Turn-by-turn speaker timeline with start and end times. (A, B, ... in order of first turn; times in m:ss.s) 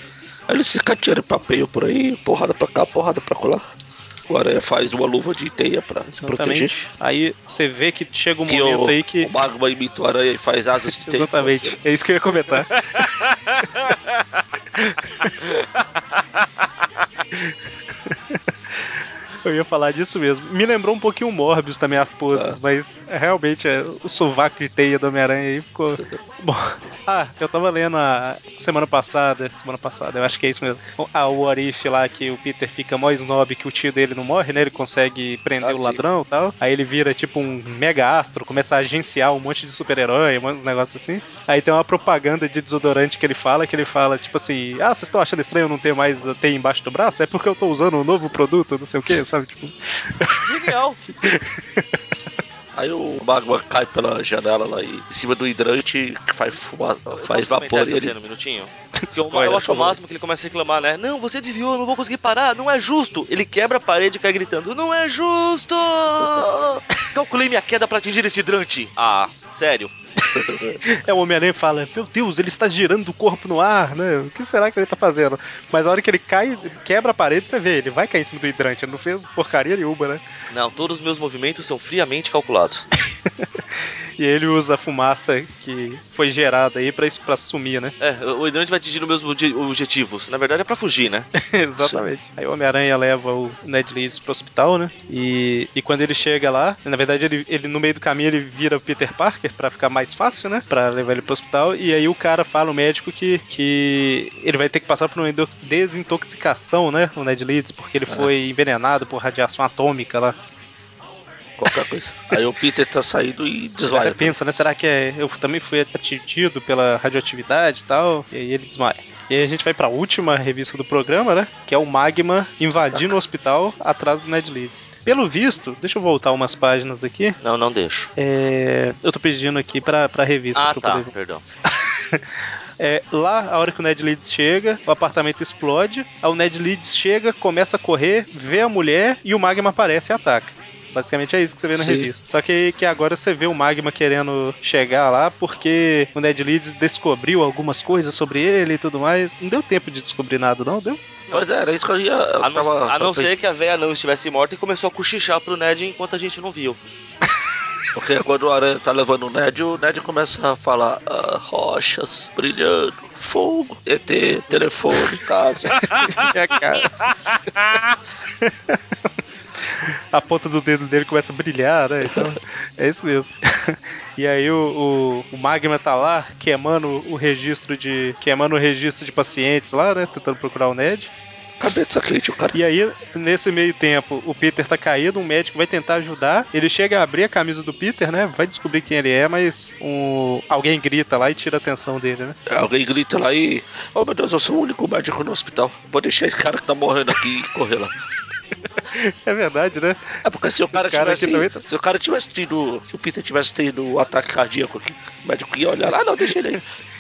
0:00.5-0:03.6 A
0:04.3-0:06.7 A
0:06.1-0:09.3 B
0:08.5-0:11.8 A
0:10.8-0:13.0 B
0:13.0-0:14.0 C
0:14.8-0:15.3 B
0:17.3-0:50.5 B
0:22.3-0:22.6 A
0:35.6-0:36.0 A
0:50.4-0:51.0 C
0:51.1-0:52.3 B
0:52.7-0:58.1 A
0:57.1-1:09.9 C
0:59.3-1:00.0 A
1:10.3-1:20.2 B
1:10.4-1:10.8 A
1:20.5-1:22.9 C
1:24.2-1:27.9 B
1:28.0-1:31.3 C
1:31.4-1:50.4 B
1:31.8-1:32.1 A
1:51.6-1:54.4 A
1:53.9-2:07.4 B
2:02.9-2:03.2 A
2:07.4-2:08.1 C
2:08.2-2:11.1 B
2:10.6-2:11.4 C
2:11.7-2:12.2 B
2:12.8-2:31.0 B
2:21.7-2:22.1 A
2:31.3-2:33.4 A
2:32.4-2:36.8 C
2:37.9-2:45.9 A
2:45.8-2:47.1 B
2:48.4-2:48.8 B
2:49.6-3:01.1 B
2:52.0-2:52.3 A
3:01.6-3:02.6 A
3:02.5-3:12.4 B
3:12.5-3:17.9 A
3:18.9-3:21.6 B
3:20.2-3:26.6 A